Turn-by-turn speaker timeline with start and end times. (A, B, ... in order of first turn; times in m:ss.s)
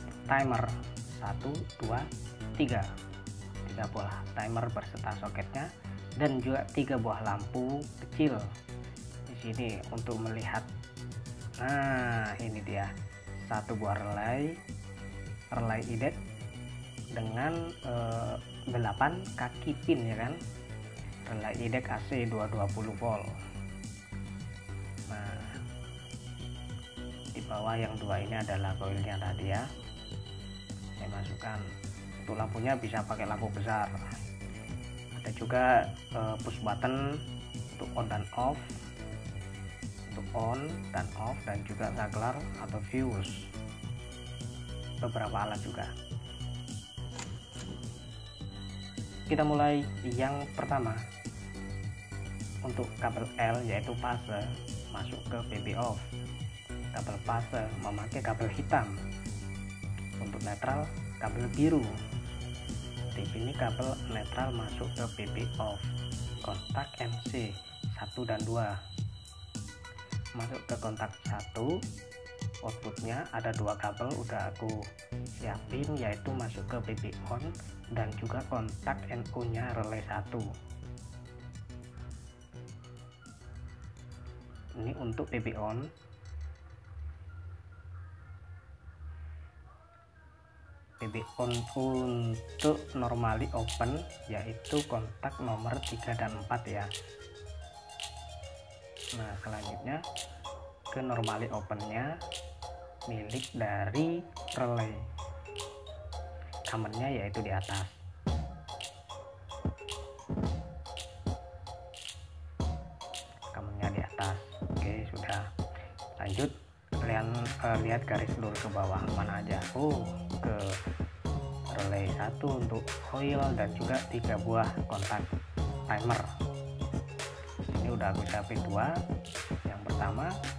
0:00.3-0:02.9 A
0:03.7-0:08.5 A
0:09.3-0:10.7 A
0:11.6-0:12.9 A
0:13.5-0:14.6 A
0:15.5-0:16.2 A
0:17.2-0:20.4 A
0:21.3-0:23.4 A
0:25.1-0:25.6 A
0:27.4-0:29.7 A
0:31.0-0:31.6 A
0:32.2-0:34.0 A
0:35.2-0:37.2 A
0:37.7-0:38.6 A
0:40.1-0:43.5 A
0:45.0-0:45.9 A
0:49.3-0:51.0 A
0:52.7-0:56.0 A
0:56.9-0:59.0 A
1:00.2-1:02.0 A
1:03.1-1:05.9 A
1:06.4-1:08.8 A
1:10.4-1:11.8 A
1:12.6-1:14.8 A
1:15.4-1:20.5 A
1:24.8-1:25.9 A
1:31.0-1:36.9 A
1:39.2-1:40.0 A
1:40.9-1:42.1 A
1:43.1-1:45.0 A
1:46.7-1:48.0 A
1:53.5-1:55.5 A
1:56.2-2:00.8 A
2:01.7-2:05.3 A
2:05.9-2:06.3 A
2:07.6-2:09.0 A
2:09.7-2:10.3 A